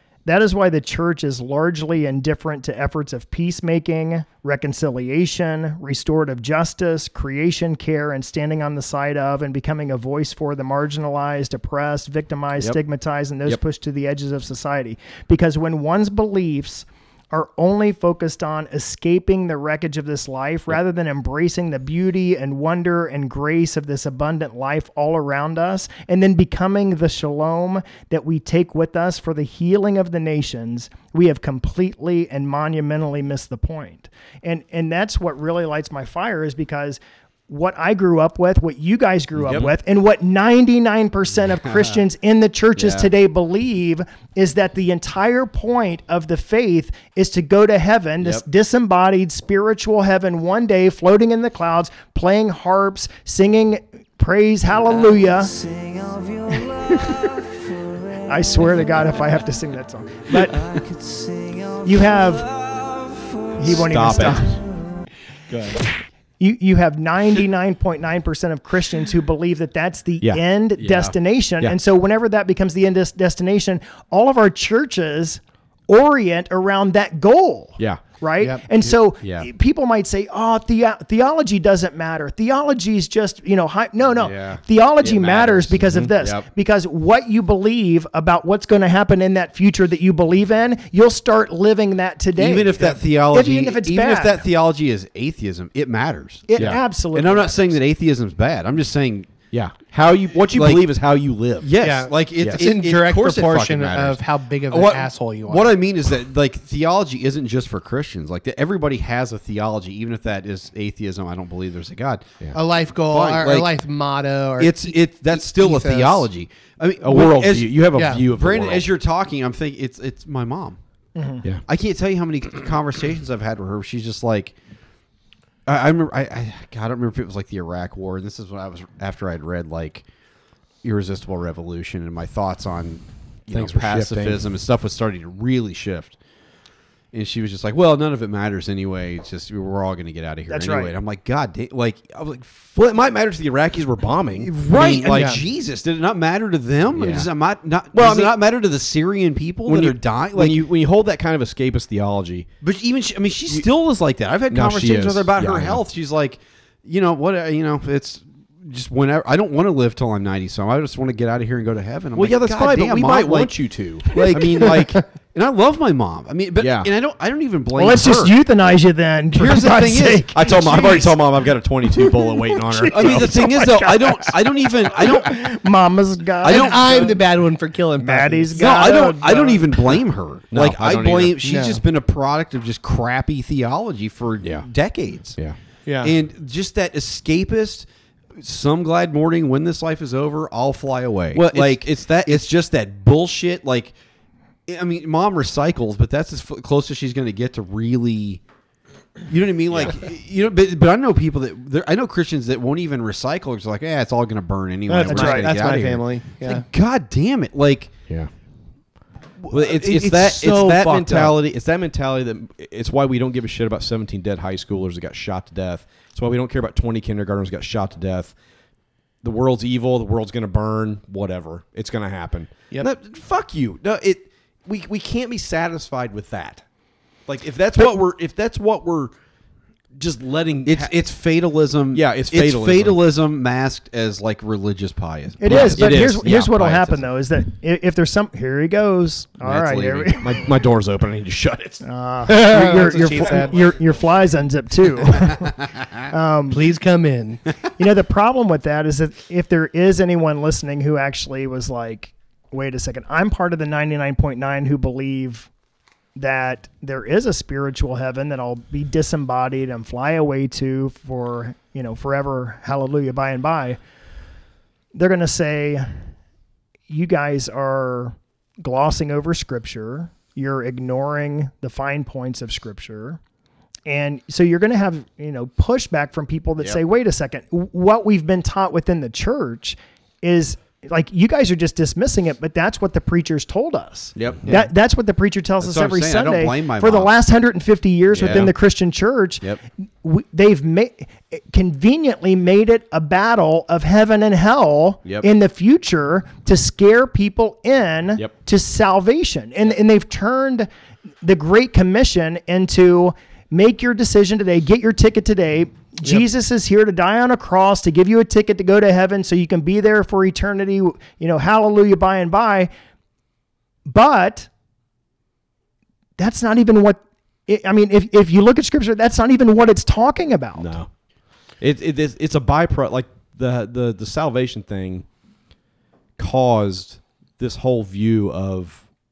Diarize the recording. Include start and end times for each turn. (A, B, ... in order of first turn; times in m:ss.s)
0:00.3-0:55.6 A
0:39.4-0:39.7 B
0:42.8-0:43.1 B
0:56.6-0:57.4 A
0:58.3-1:00.6 A
1:01.8-1:02.5 A
1:03.6-1:04.6 A
1:03.7-1:04.6 B
1:06.4-1:34.4 A
1:10.2-1:11.8 B
1:19.2-1:19.5 B
1:24.2-1:24.6 C
1:25.0-1:26.4 B
1:32.4-1:39.3 C
1:36.5-1:37.8 A
1:39.5-1:41.7 B
1:40.6-1:40.9 C
1:41.6-1:52.4 C
1:41.8-1:45.7 D
1:42.4-1:42.7 B
1:52.5-1:56.3 D
1:53.0-1:53.7 C
1:54.6-2:00.8 C
1:57.0-1:58.9 B
1:58.0-1:58.2 D
2:01.2-2:01.4 A
2:01.7-2:04.6 C
2:05.7-2:10.0 C
2:10.8-2:16.2 C
2:13.5-2:14.4 B
2:17.1-2:22.7 C
2:20.5-2:21.0 A
2:22.7-2:25.3 B
2:24.4-2:30.6 C
2:25.1-2:25.4 D
2:26.9-2:27.3 B
2:27.9-2:28.4 B
2:29.7-2:32.5 B
2:32.6-2:48.3 C
2:34.5-2:35.8 B
2:42.1-2:44.9 B
2:46.6-2:46.9 B
2:47.8-2:51.1 A
2:49.3-2:51.1 C
2:50.3-2:53.8 B
2:52.7-2:54.3 A
2:52.9-2:55.4 C
2:55.0-2:57.2 A
2:56.4-2:57.2 C
2:56.4-2:58.6 D
2:58.0-2:59.8 A
2:58.5-3:05.4 C
3:00.5-3:01.4 B
3:01.4-3:01.8 D
3:04.4-3:04.7 B
3:05.9-3:06.2 D
3:06.0-3:13.9 C
3:11.3-3:12.5 B
3:14.7-3:18.4 C
3:19.3-3:27.9 C
3:19.7-3:20.0 B
3:24.9-3:26.6 D
3:25.1-3:25.5 A
3:29.4-3:31.4 C
3:29.5-3:38.3 B
3:39.2-3:46.6 B
3:47.3-3:49.1 B
3:50.0-3:50.9 B
3:50.6-3:56.1 C
3:51.9-3:53.0 B
3:55.4-4:00.4 A
3:55.4-3:57.0 B
3:59.5-4:01.8 B
4:01.8-4:06.6 A
4:02.3-4:03.6 D
4:06.5-4:07.4 D
4:07.8-4:15.5 A
4:16.2-4:23.8 A
4:24.9-4:26.0 A
4:26.9-4:33.2 A
4:33.9-4:49.4 A
4:44.2-4:44.4 B
4:45.6-4:47.1 C
4:48.1-4:48.5 B
4:50.0-5:00.7 A
5:01.2-5:12.7 A
5:13.9-5:14.5 A
5:16.2-5:20.8 A
5:20.6-5:20.9 B
5:21.6-5:25.1 B
5:26.2-5:28.8 B